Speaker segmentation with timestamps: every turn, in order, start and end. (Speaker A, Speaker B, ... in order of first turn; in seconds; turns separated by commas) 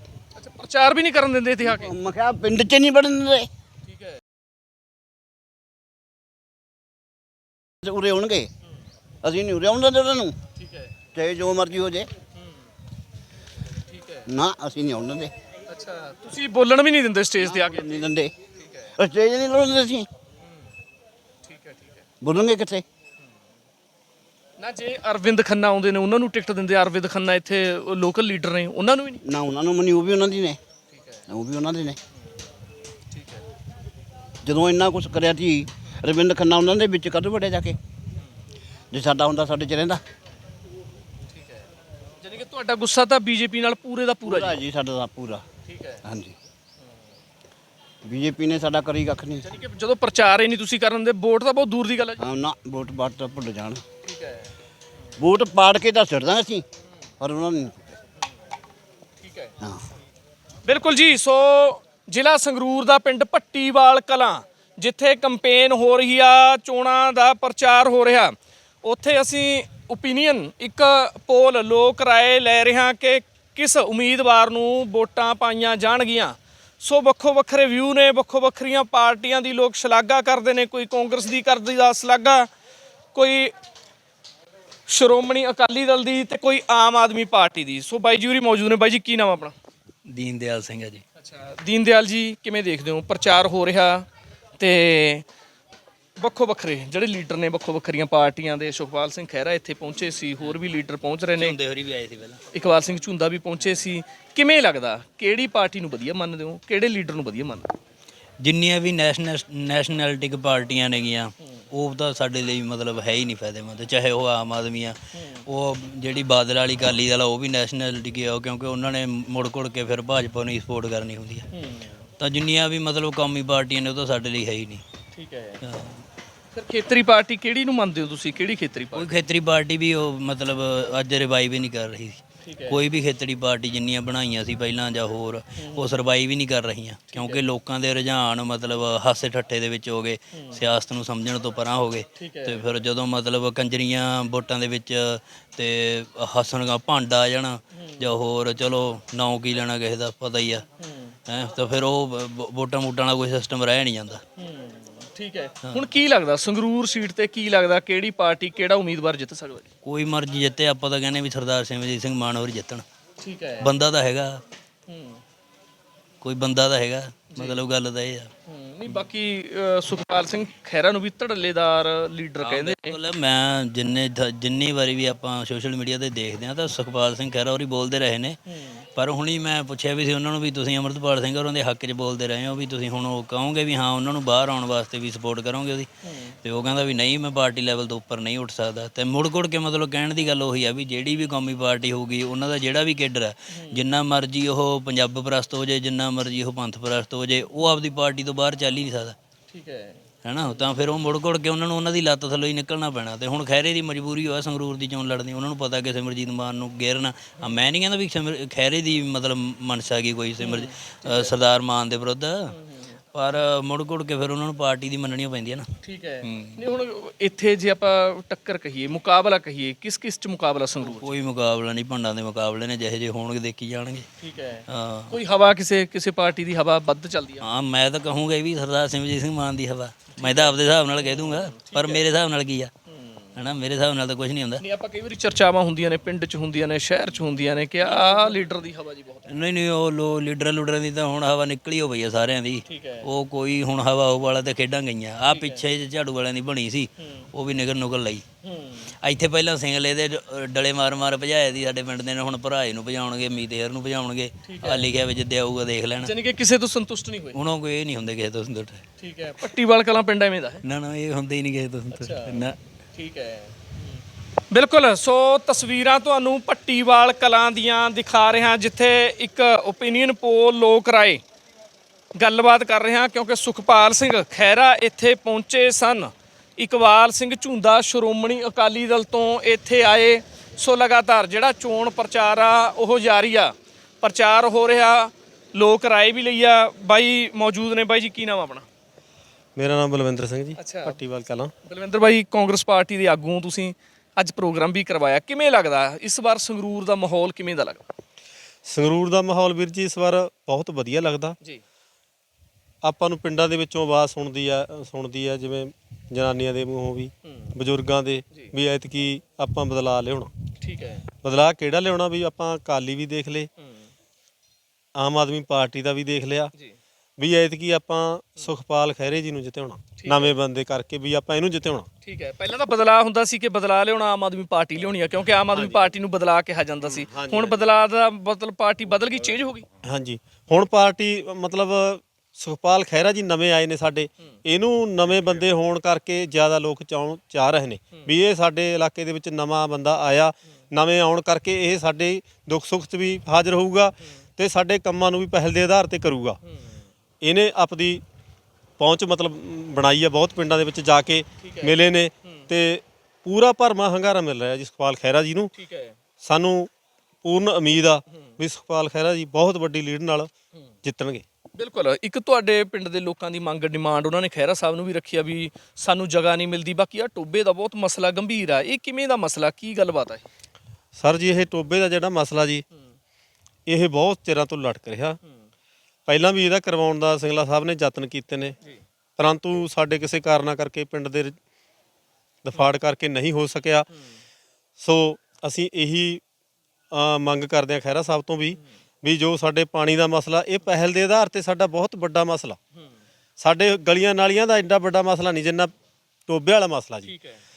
Speaker A: 0.4-1.9, Speaker B: 1.6-3.5, Speaker A: 3.9-4.2, Speaker B: 7.8-8.5, Speaker B: 9.2-10.3, Speaker A: 10.6-10.9, Speaker B: 11.1-12.1, Speaker A: 13.9-14.2, Speaker B: 14.3-15.3, Speaker A: 15.7-18.0, Speaker B: 17.4-18.3, Speaker B: 18.9-20.1, Speaker A: 21.5-22.0, Speaker B: 22.2-22.8, Speaker A: 24.6-29.2, Speaker B: 29.2-30.6, Speaker A: 30.9-31.2, Speaker B: 31.3-32.0, Speaker A: 33.1-33.4, Speaker B: 34.4-37.8, Speaker B: 38.9-40.0, Speaker A: 41.3-41.6, Speaker A: 42.2-44.6, Speaker B: 44.2-45.4, Speaker A: 45.7-46.0, Speaker B: 46.0-46.4, Speaker B: 48.0-49.4, Speaker A: 49.4-52.2, Speaker B: 52.2-53.8, Speaker A: 54.0-54.5, Speaker B: 55.2-56.6, Speaker B: 57.2-57.9, Speaker A: 59.2-59.5, Speaker A: 60.6-82.5, Speaker A: 83.1-83.5, Speaker A: 84.9-89.5, Speaker C: 90.1-91.0, Speaker A: 91.2-94.0, Speaker A: 94.6-95.2, Speaker A: 96.2-101.6, Speaker C: 101.4-102.4, Speaker A: 102.5-107.7, Speaker C: 108.4-115.0, Speaker A: 115.1-115.4, Speaker C: 115.5-121.5, Speaker A: 121.5-122.0, Speaker C: 122.2-124.8, Speaker A: 125.1-125.6, Speaker C: 125.6-126.0, Speaker A: 126.5-129.2, Speaker C: 128.9-150.6, Speaker A: 132.4-132.8, Speaker A: 135.6-135.9, Speaker A: 137.1-137.4, Speaker A: 140.3-140.6, Speaker A: 142.2-142.6, Speaker A: 147.7-148.1, Speaker A: 150.8-151.2, Speaker C: 151.3-154.2, Speaker A: 154.4-159.7, Speaker C: 159.8-162.8, Speaker A: 163.2-163.7, Speaker C: 163.6-164.4, Speaker A: 164.9-165.2, Speaker C: 166.2-168.3, Speaker A: 167.3-167.6, Speaker A: 168.5-173.0, Speaker C: 172.4-178.4, Speaker A: 178.5-178.8, Speaker C: 178.9-185.9, Speaker A: 186.0-186.3, Speaker C: 186.4-199.2, Speaker A: 193.5-193.8, Speaker A: 199.5-200.0, Speaker C: 200.2-212.5, Speaker A: 210.4-211.4, Speaker A: 212.5-212.8, Speaker C: 213.1-215.7, Speaker A: 215.8-221.1, Speaker C: 216.2-216.6, Speaker C: 220.8-224.1, Speaker A: 224.2-227.4, Speaker C: 224.7-225.1, Speaker C: 227.4-232.7, Speaker A: 230.1-232.1, Speaker A: 232.9-233.4, Speaker C: 233.4-234.6, Speaker A: 234.6-239.3, Speaker C: 239.3-248.2, Speaker A: 242.7-243.1, Speaker A: 245.3-245.7, Speaker A: 248.4-248.9, Speaker C: 249.0-256.1, Speaker A: 254.4-254.9, Speaker A: 256.0-257.4, Speaker C: 257.4-258.8, Speaker A: 259.0-260.6, Speaker C: 260.6-262.6, Speaker A: 261.9-262.4, Speaker A: 262.9-263.8, Speaker A: 264.5-271.2, Speaker A: 272.2-288.6, Speaker D: 289.6-291.5, Speaker A: 290.6-291.0, Speaker A: 291.6-297.8, Speaker D: 298.6-301.4, Speaker D: 302.8-310.3, Speaker A: 310.6-311.0, Speaker D: 311.2-313.5, Speaker D: 314.9-316.5, Speaker D: 317.2-321.9, Speaker A: 319.9-320.3, Speaker A: 322.0-329.6, Speaker D: 325.5-325.9, Speaker D: 326.8-327.6, Speaker D: 329.8-346.4, Speaker D: 347.2-348.0, Speaker D: 348.8-355.5, Speaker A: 351.4-352.4, Speaker A: 355.6-355.9, Speaker D: 356.2-356.7, Speaker D: 357.2-360.3, Speaker D: 360.8-361.2, Speaker A: 361.6-370.2, Speaker D: 370.9-372.6, Speaker D: 373.7-375.2, Speaker D: 376.1-378.6, Speaker D: 379.2-381.4, Speaker D: 382.4-383.9, Speaker D: 384.8-386.2, Speaker D: 386.9-392.6, Speaker D: 393.4-395.7, Speaker D: 396.3-397.1, Speaker A: 397.0-397.4